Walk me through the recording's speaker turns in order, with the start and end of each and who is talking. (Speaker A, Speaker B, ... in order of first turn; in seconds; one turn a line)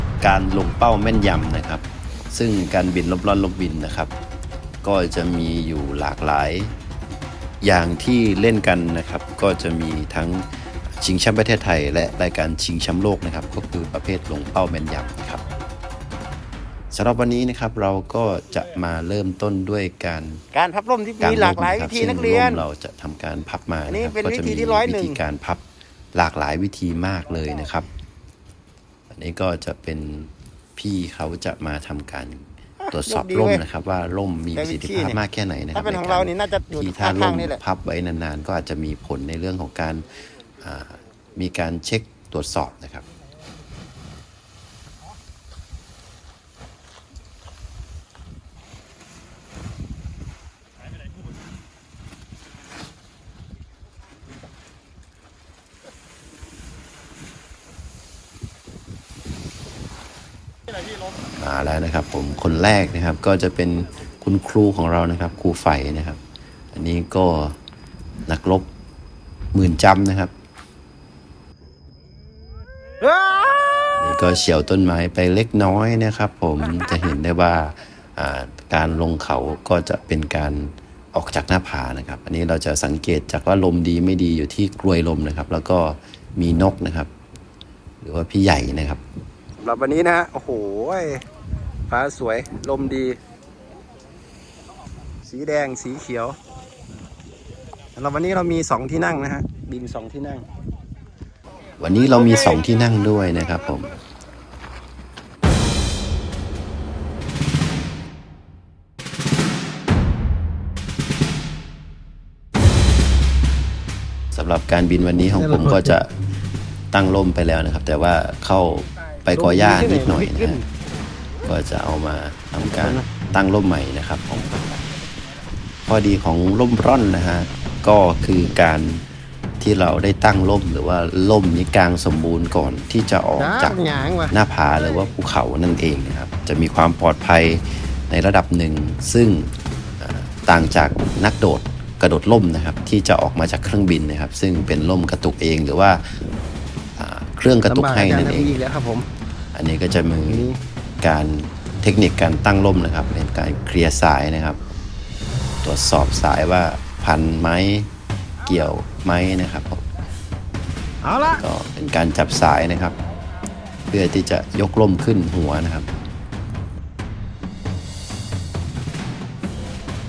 Speaker A: 0.2-4.1
Speaker A: 4.8-6.7
Speaker A: 7.6-10.5
Speaker A: 11.0-15.4
Speaker A: 16.9-20.4
Speaker B: 20.5-22.6
Speaker A: 21.2-25.6
Speaker B: 23.9-25.2
Speaker A: 26.1-27.9
Speaker A: 29.1-40.1
Speaker B: 32.8-33.6
Speaker B: 34.6-35.2
Speaker B: 35.8-37.6
Speaker A: 40.6-43.0
Speaker A: 61.4-66.2
Speaker A: 66.7-67.6
Speaker A: 68.2-68.7
Speaker A: 69.5-70.3
Speaker B: 73.0-74.0
Speaker A: 73.9-87.1
Speaker A: 88.0-89.0
Speaker B: 89.6-91.2
Speaker B: 91.9-93.2
Speaker B: 95.2-96.4
Speaker B: 97.9-100.5
Speaker A: 101.8-103.9
Speaker A: 114.3-116.1
Speaker B: 115.3-116.0
Speaker A: 116.9-120.6
Speaker B: 119.3-120.6
Speaker A: 121.4-124.7
Speaker B: 122.6-123.0
Speaker A: 125.9-129.0
Speaker A: 129.6-133.8
Speaker B: 133.4-134.3
Speaker A: 134.3-146.2
Speaker A: 147.0-148.6
Speaker B: 147.6-149.1
Speaker A: 149.5-154.6
Speaker B: 150.3-150.6
Speaker A: 155.6-157.9
Speaker A: 158.4-159.8
Speaker B: 161.0-161.4
Speaker A: 161.3-163.0
Speaker A: 163.9-165.9